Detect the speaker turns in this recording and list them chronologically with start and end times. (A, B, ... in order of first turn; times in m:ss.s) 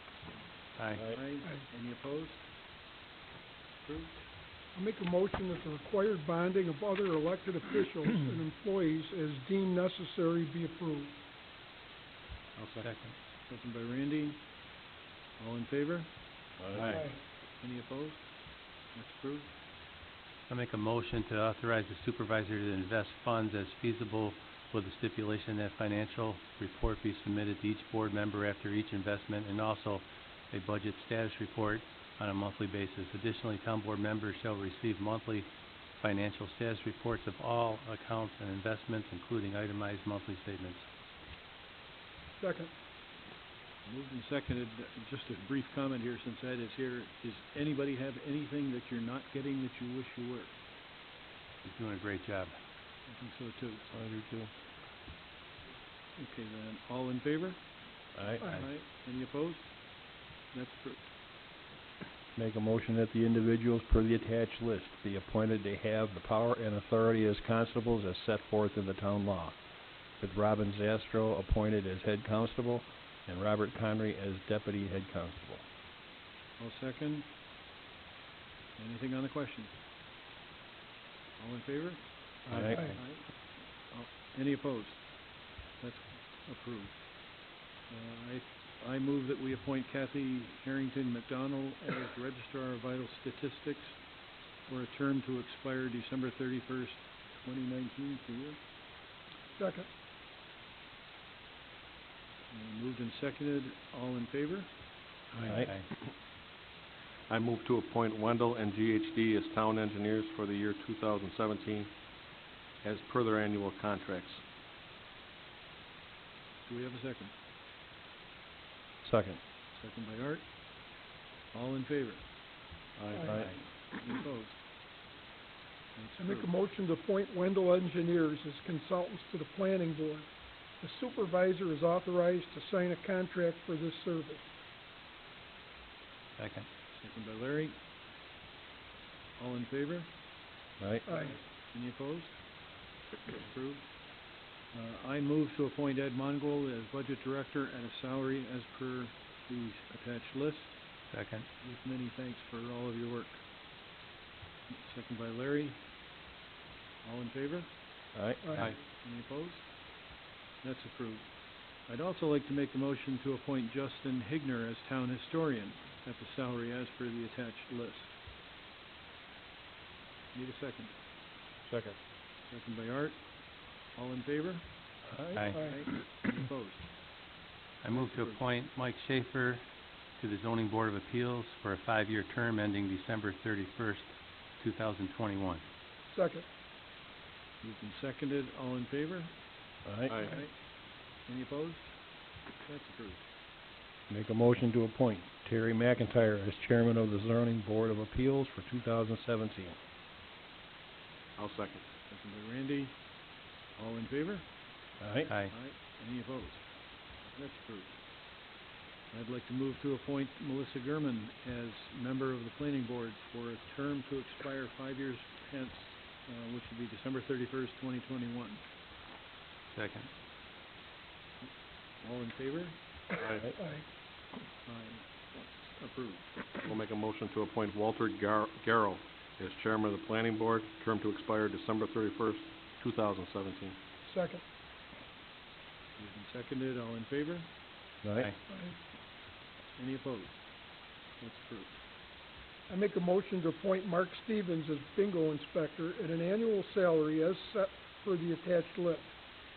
0:00.7-0:01.0 A
0:01.0-0:02.4 B
0:03.8-0:04.2 B
0:04.7-0:11.1 C
0:12.6-0:12.8 D
0:12.8-0:13.1 A
0:13.5-0:14.4 B
0:15.4-0:16.1 B
0:16.6-0:17.1 E
0:16.7-0:18.2 B
0:18.9-0:19.5 B
0:20.5-0:35.5 A
0:36.0-0:40.8 A
0:42.4-0:42.7 C
0:43.8-0:50.5 B
0:51.6-0:52.6 A
0:53.1-0:53.9 B
0:53.9-0:54.5 E
0:56.2-0:57.6 B
0:58.1-0:58.6 E
0:58.4-0:59.7 B
1:00.5-1:01.0 B
1:02.4-1:09.6 E
1:10.2-1:15.6 E
1:16.6-1:17.3 B
1:18.8-1:19.7 B
1:21.4-1:22.0 B
1:22.5-1:22.9 E
1:22.5-1:22.9 C
1:22.8-1:23.2 B
1:23.9-1:25.0 B
1:25.8-1:26.9 B
1:27.9-1:33.9 B
1:34.7-1:38.6 B
1:39.6-1:39.8 C
1:42.5-1:44.7 B
1:45.3-1:45.8 A
1:45.4-1:45.7 E
1:47.3-1:51.9 D
1:52.8-1:54.4 D
1:56.6-1:57.3 B
1:59.0-1:59.4 E
1:59.7-2:00.4 B
2:01.5-2:02.2 B
2:03.0-2:03.4 D
2:03.3-2:03.5 E
2:03.3-2:04.6 B
2:06.0-2:06.5 B
2:06.2-2:10.3 C
2:10.8-2:14.4 C
2:16.4-2:16.6 A
2:17.0-2:17.8 B
2:19.4-2:20.1 B
2:20.8-2:21.0 E
2:21.1-2:21.3 C
2:21.1-2:22.4 B
2:23.2-2:23.8 B
2:24.7-2:30.7 B
2:31.1-2:31.5 A
2:31.6-2:33.4 B
2:34.7-2:35.8 B
2:37.0-2:37.7 B
2:38.1-2:38.4 E
2:38.5-2:39.6 B
2:40.6-2:41.2 B
2:41.9-2:48.1 B
2:50.3-2:50.9 B
2:52.5-2:53.2 B
2:53.9-2:56.9 B
2:55.3-2:55.6 A
2:57.8-2:59.6 A
2:57.9-2:58.4 B
3:00.2-3:04.1 A
3:04.6-3:05.6 A
3:06.1-3:06.4 C
3:07.6-3:09.3 B
3:09.8-3:10.3 E
3:10.1-3:10.4 D
3:10.2-3:10.5 B
3:11.3-3:11.9 B
3:12.6-3:13.2 B
3:14.1-3:19.8 E
3:21.4-3:21.8 D
3:22.1-3:22.9 B
3:23.8-3:24.4 B
3:25.0-3:25.3 E
3:25.3-3:25.5 A
3:25.5-3:26.6 B
3:27.3-3:27.9 B
3:29.1-3:38.6 B
3:39.7-3:40.1 A
3:42.0-3:42.8 B
3:43.2-3:43.5 D
3:43.2-3:43.8 C
3:44.6-3:46.4 B
3:46.6-3:53.8 D
3:54.0-3:54.4 C
3:56.0-3:57.5 B
3:58.0-3:58.3 E
3:58.5-3:58.8 C
3:59.8-4:00.3 B
4:01.2-4:01.7 B
4:02.7-4:09.1 C